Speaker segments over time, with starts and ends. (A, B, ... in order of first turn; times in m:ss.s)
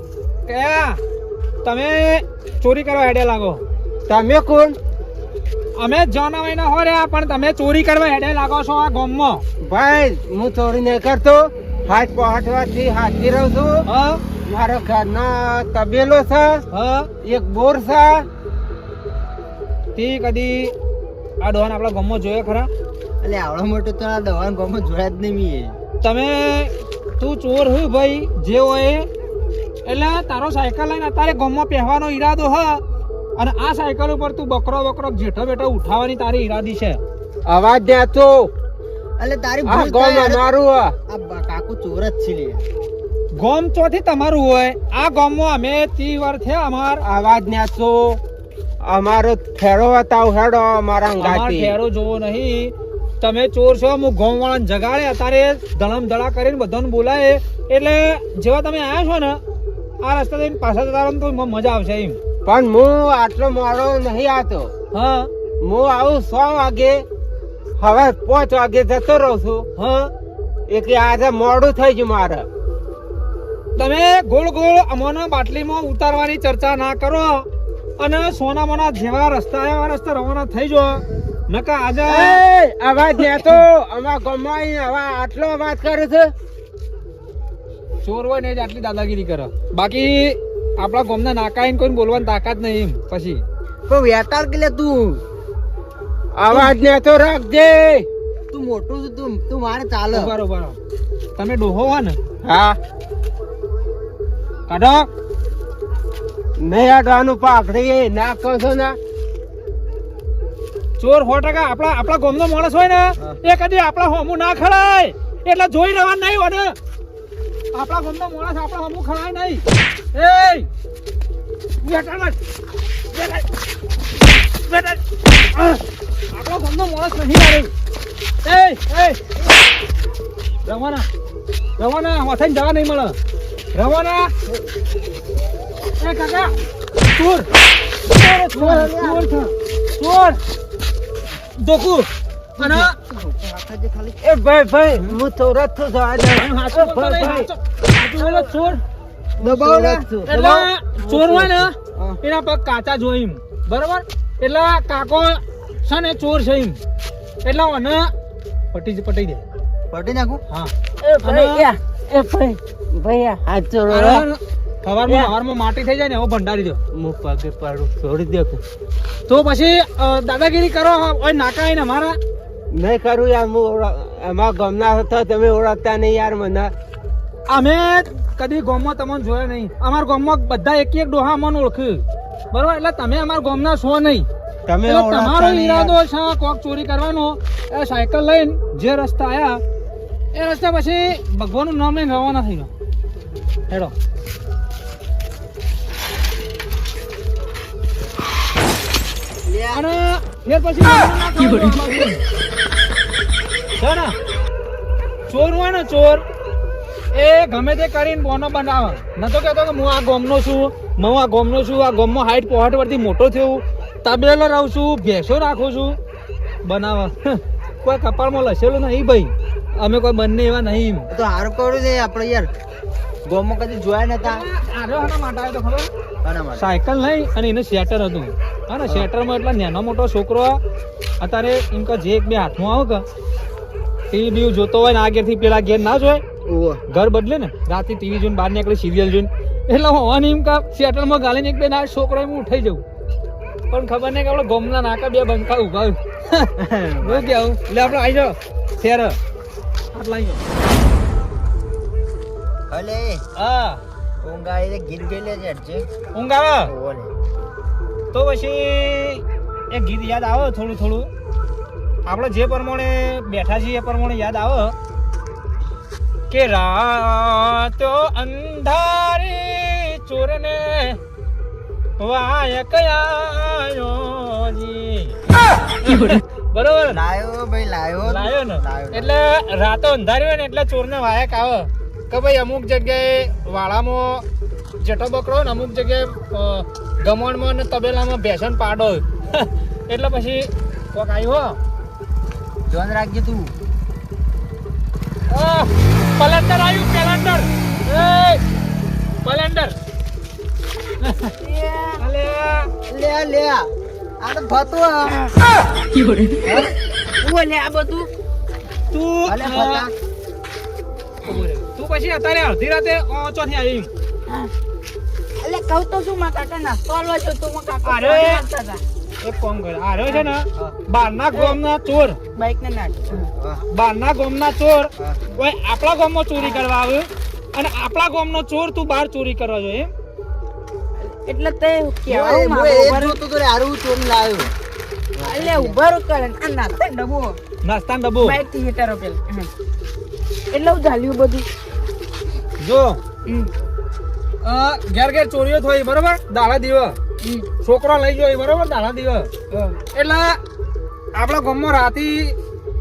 0:00.4-0:01.0 A
0:01.6-0:03.6 A
0:04.1-0:04.8 B
0:05.8-0:09.4 A
0:09.6-0:13.8 B
0:13.8-0:14.2 A
0:14.4-0:16.6 B
0:16.7-0:17.1 A
0:17.2-0:18.2 B
0:19.9-0:20.7 A
0:21.4-0:22.7 A
0:23.2-0:25.8 C
0:26.0-0:29.1 A
0:29.8-0:32.8 A
0:33.4-0:37.0 A
0:37.4-0:38.5 B
0:39.2-0:40.4 C
0:39.6-0:40.9 B
0:41.1-0:42.6 C
0:43.4-0:47.0 A
0:47.0-0:48.2 B
0:48.8-0:51.8 B
0:51.2-0:59.4 A
1:00.0-1:02.2 A
1:02.4-1:04.7 B
1:04.9-1:05.3 A
1:05.6-1:07.0 B
1:07.8-1:09.7 B
1:09.8-1:10.1 A
1:10.7-1:12.5 B
1:13.8-1:17.4 A
1:18.0-1:22.4 A
1:22.0-1:26.3 B
1:28.0-1:33.4 A
1:33.9-1:35.2 C
1:36.4-1:38.0 B
1:38.5-1:40.3 C
1:40.1-1:40.8 A
1:41.4-1:42.2 A
1:42.4-1:42.8 B
1:44.7-1:45.1 A
1:46.6-1:49.0 B
1:51.0-1:56.7 A
1:57.7-2:00.7 A
2:01.8-2:02.4 A
2:03.1-2:03.4 A
2:04.7-2:05.0 A
2:05.5-2:07.7 A
2:08.4-2:09.2 A
2:10.6-2:11.1 A
2:11.8-2:13.2 A
2:13.7-2:14.3 A
2:16.0-2:17.5 A
2:18.1-2:19.4 A
2:18.5-2:19.4 C
2:20.0-2:20.4 A
2:21.6-2:22.9 A
2:22.6-2:24.2 C
2:24.2-2:27.5 B
2:26.4-2:28.8 A
2:29.4-2:32.2 C
2:29.4-2:30.0 B
2:30.3-2:36.8 A
2:37.4-2:38.1 A
2:38.7-2:39.4 A
2:39.9-2:40.4 C
2:41.0-2:43.4 D
2:41.2-2:41.7 A
2:42.9-2:44.3 B
2:43.9-2:46.8 A
2:46.9-2:48.6 B
2:49.3-2:52.2 A
2:52.7-2:56.7 B
2:57.5-3:04.3 A
3:04.7-3:06.0 B
3:04.8-3:09.6 A
3:10.3-3:12.7 A
3:13.7-3:13.9 A
3:19.4-3:19.8 C
3:19.7-3:22.2 A
3:23.8-3:24.1 A
3:25.3-3:26.2 A
3:27.1-3:36.0 A
3:36.6-3:41.1 A
3:41.1-3:42.5 C
3:43.2-3:44.4 C
3:44.2-3:45.9 A
3:46.2-3:46.6 C
3:46.6-3:50.6 A
3:51.2-3:53.0 A
3:54.1-3:56.2 A
3:56.4-3:56.8 C
3:56.9-4:02.8 A
4:03.7-4:06.5 A
4:06.6-4:08.0 C
4:07.0-4:09.2 A
4:09.9-4:10.4 A
4:12.7-4:13.2 C
4:13.3-4:13.8 A
4:14.2-4:15.9 C
4:16.1-4:16.7 A
4:16.6-4:17.1 C
4:18.1-4:21.1 A
4:22.0-4:24.7 A
4:26.3-4:31.0 A
4:32.0-4:35.2 A
4:35.8-4:37.0 A
4:36.9-4:39.1 C
4:38.0-4:44.2 A
4:44.8-4:51.6 A
4:52.7-4:53.5 C
4:55.3-4:58.4 A
4:59.2-4:59.7 A
5:01.0-5:01.3 A
5:01.4-5:02.0 D
5:02.0-5:02.7 A
5:02.9-5:05.2 C
5:05.9-5:06.7 D
5:06.4-5:06.7 C
5:07.2-5:08.1 D
5:08.9-5:09.9 A
5:09.2-5:09.9 C
5:11.2-5:13.9 A
5:15.4-5:18.8 D
5:17.8-5:18.4 A
5:19.2-5:22.2 A
5:21.3-5:21.6 D
5:22.3-5:23.3 D
5:23.2-5:23.6 C
5:23.7-5:29.9 A
5:26.4-5:26.6 D
5:31.0-5:33.2 D
5:32.1-5:34.5 C
5:35.2-5:35.8 C
5:35.2-5:37.4 D
5:37.6-5:38.4 A
5:38.2-5:39.5 D
5:40.5-5:41.5 D
5:42.6-5:43.0 A
5:43.2-5:43.5 D
5:44.4-5:47.0 A
5:47.2-5:47.5 D
5:47.6-5:49.3 A
5:49.5-5:49.8 D
5:49.9-5:50.4 A
5:51.1-5:52.4 A